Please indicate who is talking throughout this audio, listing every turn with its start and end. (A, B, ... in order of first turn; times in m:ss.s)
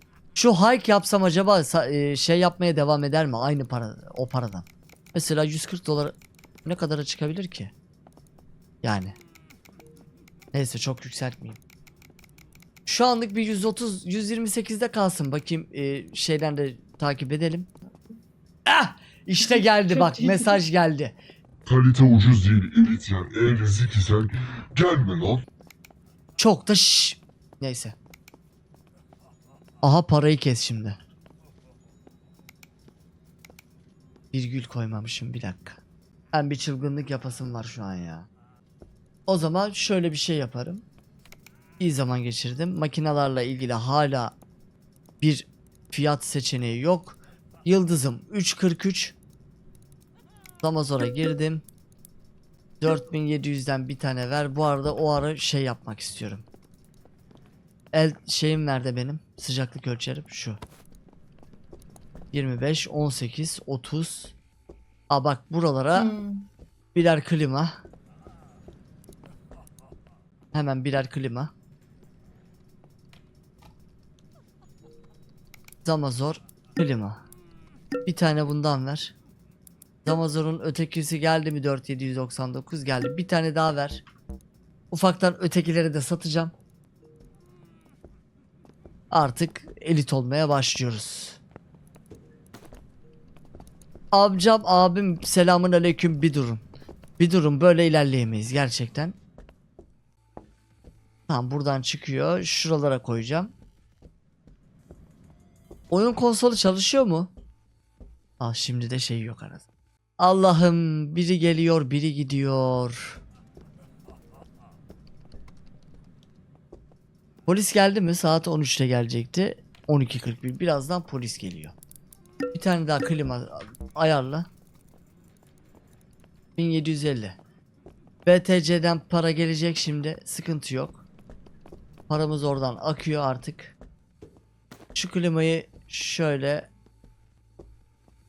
0:00.3-0:07.7 A
0:08.8-0:09.2 A
0:10.5-0:11.6 A
0:12.8-0:17.7 A
0:17.9-0:18.2 B
0:18.6-0:21.1 A
0:19.4-0:20.6 B
0:21.6-0:25.4 C
0:26.4-0:27.9 A
0:29.8-0:31.0 A
0:34.3-0:35.8 A
0:36.3-0:38.3 A
0:39.3-0:40.8 A
0:41.8-0:44.3 A
0:45.2-0:49.2 A
0:50.6-0:51.6 A
0:52.8-0:56.4 A
0:57.9-1:00.6 A
1:02.3-1:04.3 A
1:05.1-1:06.1 A
1:05.9-1:06.4 B
1:06.9-1:07.8 A
1:10.5-1:11.5 A
1:15.8-1:17.2 A
1:18.0-1:19.1 A
1:20.0-1:24.0 A
1:24.9-1:26.5 A
1:29.1-1:31.4 A
1:34.1-1:36.6 A
1:37.2-1:39.1 A
1:41.3-1:43.5 A
1:45.9-1:47.3 A
1:48.4-1:49.6 A
1:50.2-1:53.2 A
1:57.5-2:01.7 A
2:02.5-2:04.5 A
2:06.6-2:07.4 A
2:08.2-2:11.0 A
2:12.1-2:13.7 A
2:14.9-2:16.7 A